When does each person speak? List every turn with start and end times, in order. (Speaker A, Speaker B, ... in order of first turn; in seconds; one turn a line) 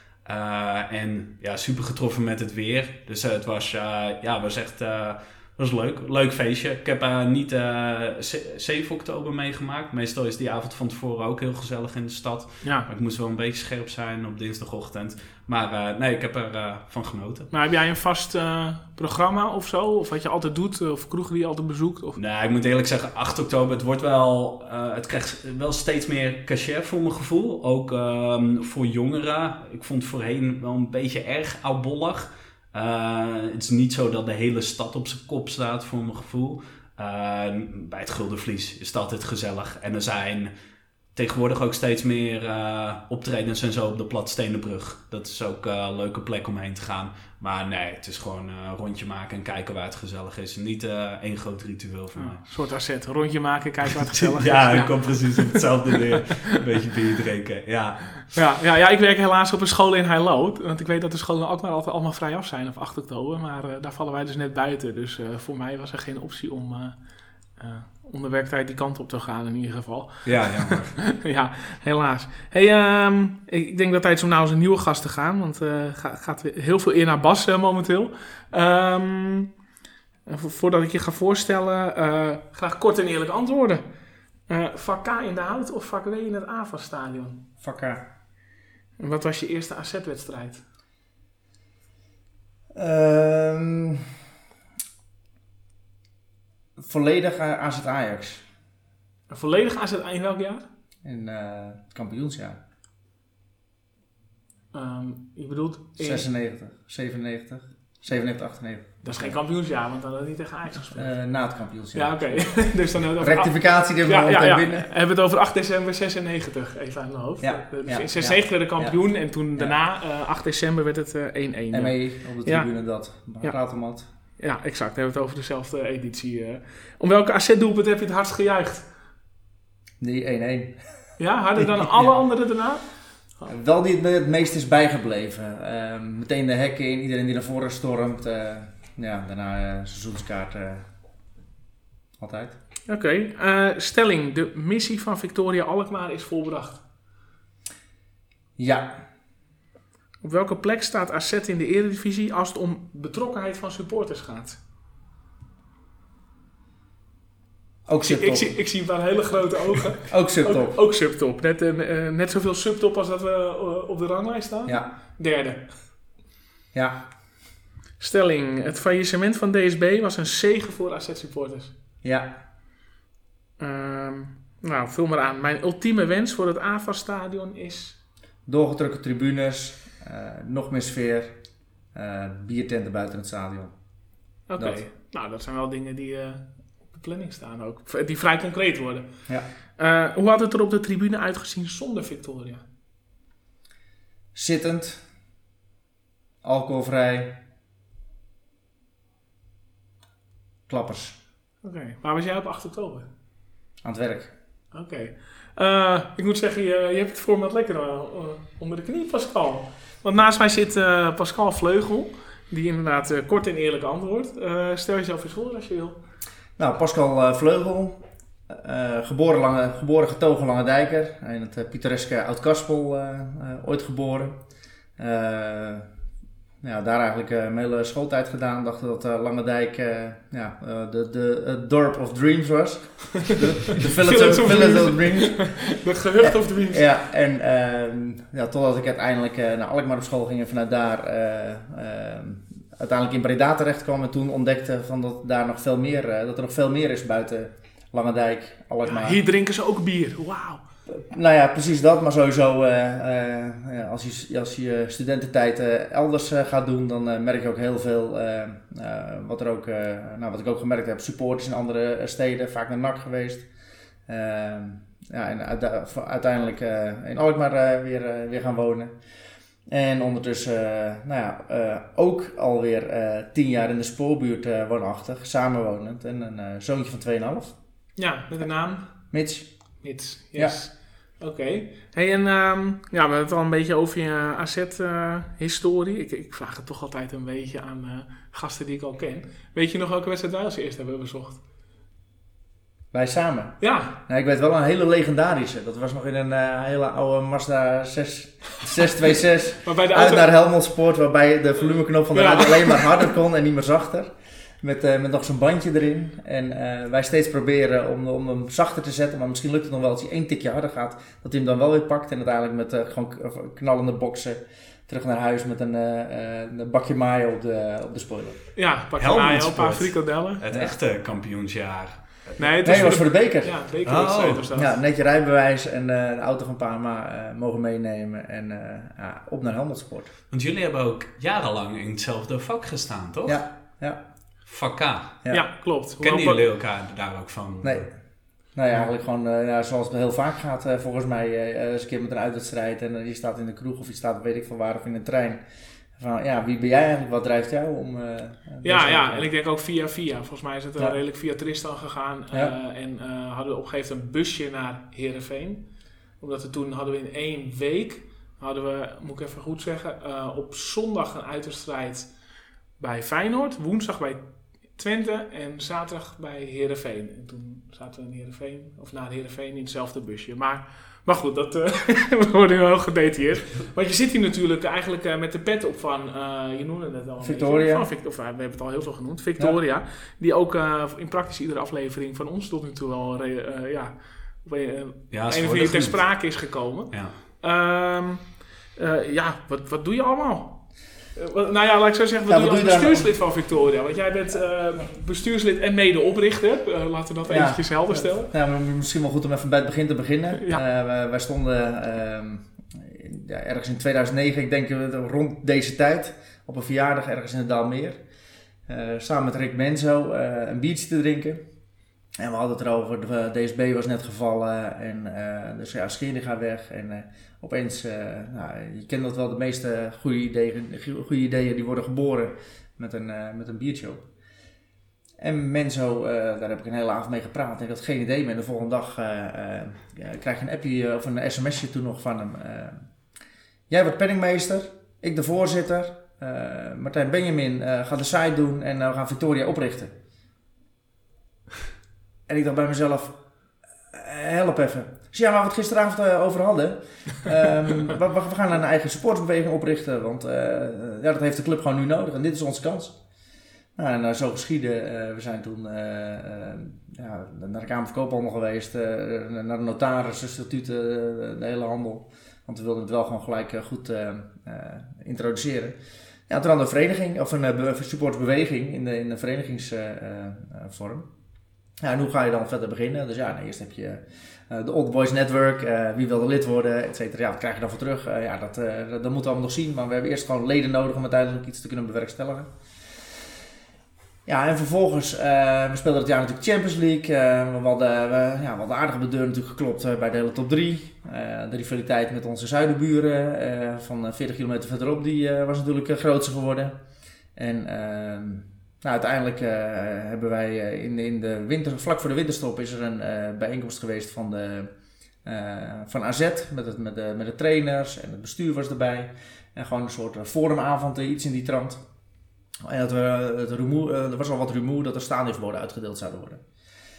Speaker A: 0.2-17.5
Speaker B: 12.6-12.9
Speaker B: 17.5-22.2
Speaker A: 22.1-40.5
Speaker A: 41.1-52.4
Speaker B: 52.1-56.0
Speaker A: 54.1-58.3
Speaker B: 58.3-67.0
Speaker B: 67.6-79.5
Speaker A: 70.2-70.9
Speaker B: 80.3-83.8
Speaker B: 84.5-87.4
Speaker C: 87.6-88.0
Speaker B: 89.0-90.6
Speaker C: 92.8-94.1
Speaker C: 96.8-98.5
Speaker B: 99.3-100.7
Speaker C: 101.0-102.6
Speaker B: 104.7-106.2
Speaker C: 106.0-109.4
Speaker B: 109.0-111.1
Speaker C: 110.9-112.6
Speaker B: 111.9-123.6
Speaker C: 113.2-114.9
Speaker C: 117.4-119.0
Speaker C: 121.7-124.0
Speaker B: 124.4-128.9
Speaker C: 130.0-132.1
Speaker B: 131.2-132.9
Speaker C: 133.5-140.9
Speaker C: 142.2-142.6
Speaker B: 142.9-146.8
Speaker C: 148.6-148.9
Speaker B: 150.2-154.6
Speaker C: 157.9-158.5
Speaker B: 158.1-165.8
Speaker C: 160.1-160.8
Speaker C: 166.7-167.0
Speaker B: 168.0-171.7
Speaker C: 172.0-172.3
Speaker B: 173.6-178.0
Speaker C: 178.5-181.4
Speaker C: 181.9-183.8
Speaker B: 184.5-192.6
Speaker C: 184.6-184.8
Speaker C: 194.3-195.0
Speaker C: 196.4-197.4
Speaker C: 200.7-201.2
Speaker B: 201.6-203.1
Speaker C: 203.8-204.3
Speaker B: 204.7-216.0
Speaker C: 216.6-224.4
Speaker C: 225.0-225.9
Speaker C: 226.6-235.7
Speaker B: 233.3-236.9
Speaker C: 236.2-249.2
Speaker B: 248.8-250.6
Speaker C: 250.9-263.5
Speaker C: 264.1-269.0
Speaker C: 269.7-277.6
Speaker B: 278.0-278.9
Speaker C: 279.1-279.8
Speaker B: 279.8-291.4
Speaker C: 292.9-318.4
Speaker B: 293.6-294.0
Speaker B: 299.6-300.3
Speaker B: 302.1-303.1
Speaker B: 318.6-320.4
Speaker A: 319.0-323.0
Speaker B: 322.4-324.8
Speaker C: 322.6-323.8
Speaker A: 323.9-324.4
Speaker C: 324.5-330.1
Speaker A: 330.3-333.4
Speaker C: 333.3-334.0
Speaker A: 334.5-335.2
Speaker B: 335.3-336.4
Speaker A: 336.0-337.9
Speaker C: 337.6-337.9
Speaker C: 338.5-345.4
Speaker C: 345.9-349.3
Speaker B: 348.6-355.7
Speaker B: 356.2-362.1
Speaker B: 362.8-398.3
Speaker C: 377.2-377.9
Speaker A: 385.1-386.2
Speaker A: 386.9-387.2
Speaker C: 392.3-393.1
Speaker C: 397.2-408.0
Speaker C: 408.7-411.4
Speaker C: 412.2-424.0
Speaker C: 425.2-432.9
Speaker C: 433.7-439.9
Speaker C: 442.3-443.2
Speaker C: 443.9-453.0
Speaker C: 453.8-465.8
Speaker C: 466.3-471.1
Speaker C: 471.8-482.5
Speaker C: 484.3-496.8
Speaker C: 497.4-504.7
Speaker C: 505.2-511.8
Speaker C: 512.6-516.4